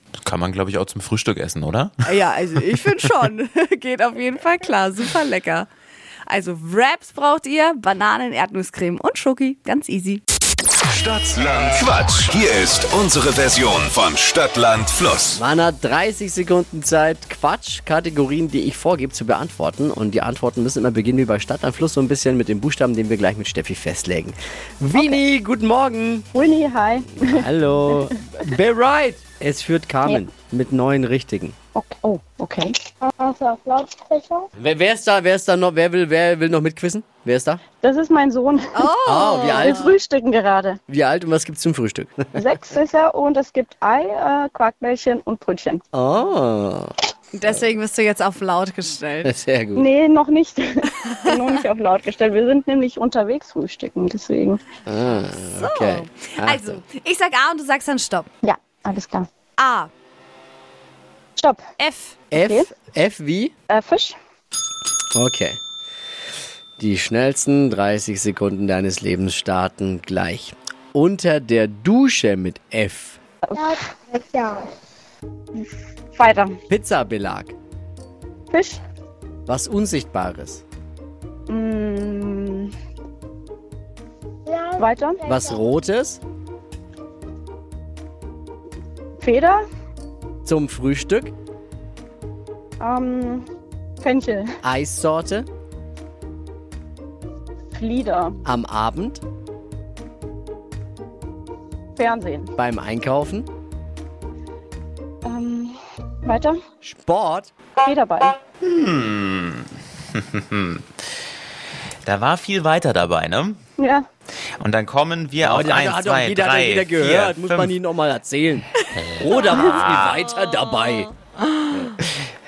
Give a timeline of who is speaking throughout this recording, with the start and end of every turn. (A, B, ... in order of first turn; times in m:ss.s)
0:00.2-0:01.9 A
0:02.1-0:05.7 B
0:06.3-0:10.2 B
0:10.8-0:15.4 C
0:15.3-0:26.3 D
0:26.3-0:28.1 E
0:27.2-0:31.5 D
0:31.7-0:34.5 E
0:34.6-0:37.6 D
0:37.8-0:40.8 E
0:38.7-0:40.0 B
0:39.0-0:39.9 D
0:40.9-0:42.5 D
0:42.3-0:45.8 E
0:45.9-0:46.9 D
0:47.3-0:49.3 B
0:49.2-0:49.9 D
0:49.7-0:54.6 E
0:51.2-0:51.6 B
0:54.9-0:56.8 D
0:55.5-0:58.2 B
0:58.4-0:59.3 E
0:59.6-0:59.9 B
1:01.4-1:01.6 E
1:01.8-1:02.1 B
1:02.3-1:03.5 D
1:02.4-1:02.7 E
1:03.7-1:04.2 E
1:05.1-1:05.6 D
1:06.8-1:13.2 D
1:13.5-1:13.8 E
1:15.6-1:16.6 E
1:16.7-1:17.5 D
1:18.5-1:18.8 E
1:19.5-1:20.6 D
1:21.5-1:22.7 E
1:24.7-1:25.2 E
1:25.2-1:26.2 D
1:29.2-1:29.6 E
1:30.4-1:31.3 D
1:32.8-1:33.5 E
1:34.0-1:34.5 E
1:34.6-1:35.5 D
1:37.7-1:38.4 E
1:38.4-1:39.2 D
1:42.0-1:42.5 E
1:42.6-1:43.5 D
1:45.2-1:46.6 E
1:46.8-1:47.5 D
1:47.8-1:48.4 E
1:48.6-1:50.8 A
1:52.0-1:53.6 A
1:53.8-1:54.1 E
1:54.6-1:57.7 A
1:55.4-2:01.1 D
1:59.0-2:00.2 A